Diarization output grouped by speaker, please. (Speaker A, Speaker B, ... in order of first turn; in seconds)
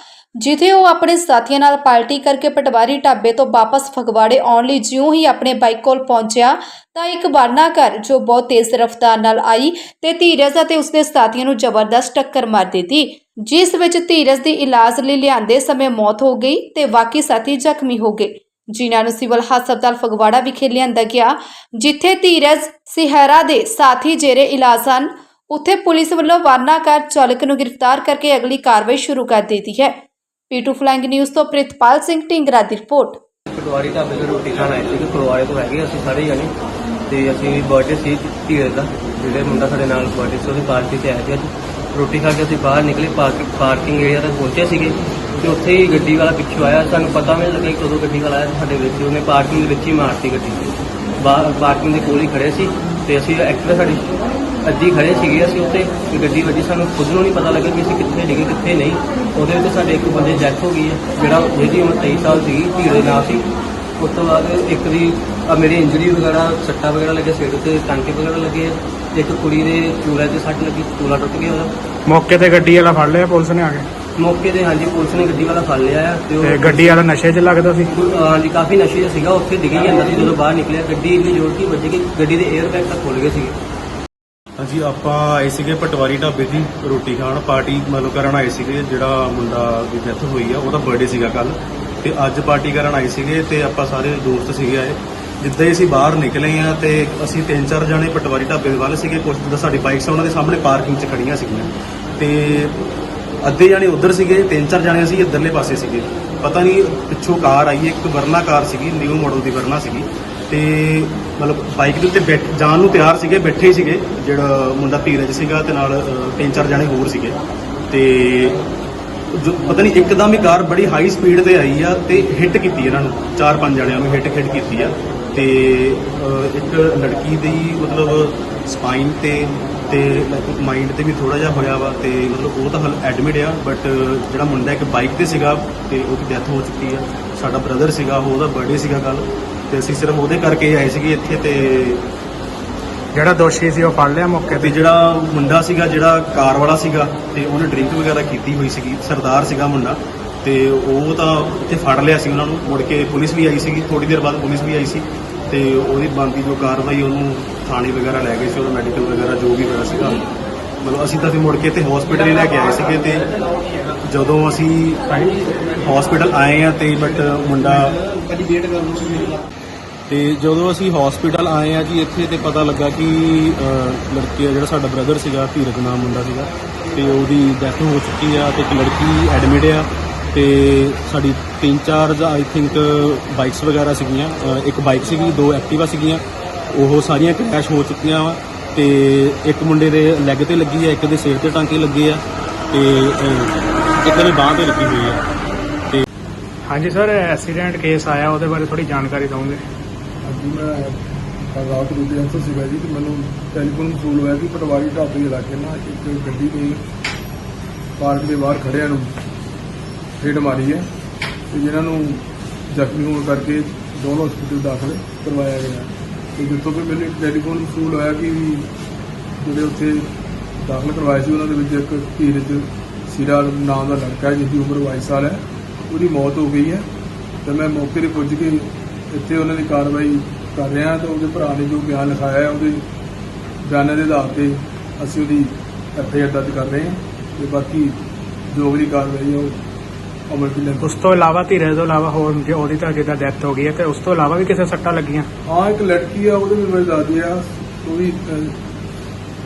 Speaker A: 0.4-29.9, 30.5-33.2
Speaker B: 33.5-36.5, 37.1-54.1, 54.6-71.7, 74.2-77.1, 77.9-83.5
Speaker C: 72.1-73.9, 76.4-77.9, 143.1-144.7, 196.7-199.6, 240.8-245.3
Speaker D: 84.6-102.8, 103.4-117.4, 117.9-118.6, 119.3-142.1, 144.5-160.2, 160.8-163.3, 164.1-168.0, 170.1-195.2
Speaker E: 200.2-201.0, 201.5-206.8, 208.0-209.1, 210.2-210.9, 211.5-218.7, 219.4-220.1, 220.6-226.8, 227.4-232.8, 233.6-238.0, 238.5-239.6, 240.3-241.0, 245.5-248.5